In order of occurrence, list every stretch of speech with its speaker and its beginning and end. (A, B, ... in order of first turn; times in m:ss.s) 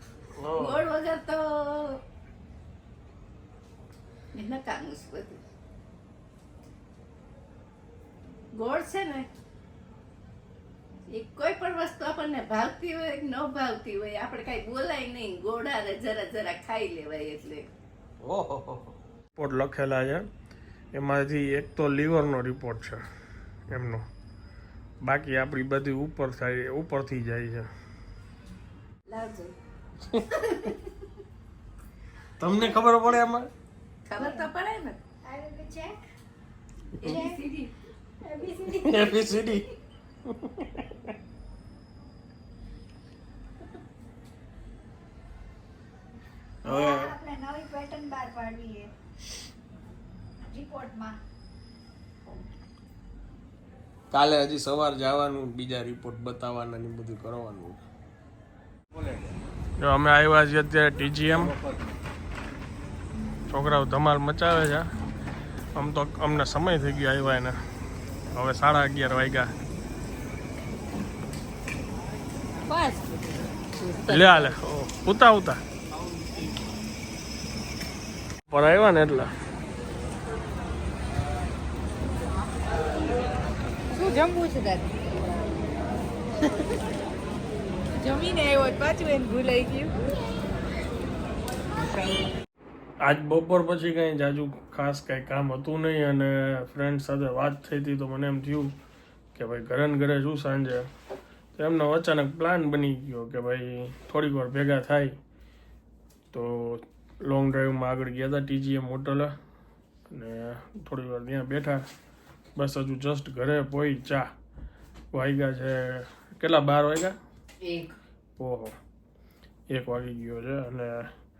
0:00.4-0:00.8 A
0:00.6-0:02.0 B
0:04.3-0:05.4 B
0:08.5-0:09.3 B
0:11.1-0:17.7 B
0:18.2-0:20.2 A
0:20.9-0:23.0 A
0:23.7-0:24.0 A
0:25.0-0:27.7 A
0:29.1-0:29.6 B
0:30.1-0:30.5 A
0:32.4-0:33.5 A
0:34.0-0:35.0 B
0:34.2-0:34.5 C
0:35.2-0:36.0 C
0:37.0-0:37.7 B
0:37.0-0:37.4 C
0:38.2-0:39.6 C
0:38.8-0:39.6 A
0:40.3-0:40.9 A
0:46.6-0:47.1 A
0:46.6-0:48.9 C
0:50.5-0:51.2 C
0:54.1-0:57.8 A
0:59.8-1:01.6 A
1:03.5-1:04.8 A
1:05.7-1:07.6 A
1:08.3-1:09.5 A
1:12.7-1:13.0 D
1:13.8-1:14.5 D
1:14.1-1:15.6 A
1:18.5-1:19.3 A
1:23.9-1:24.9 D
1:28.0-1:29.9 D
1:33.0-1:38.8 A
1:39.3-1:40.9 A
1:41.6-1:45.2 A
1:46.3-1:49.3 A
1:50.1-1:51.8 A
1:52.6-1:54.3 A
1:55.1-1:57.2 A
1:58.4-1:58.8 A
1:59.7-2:01.1 A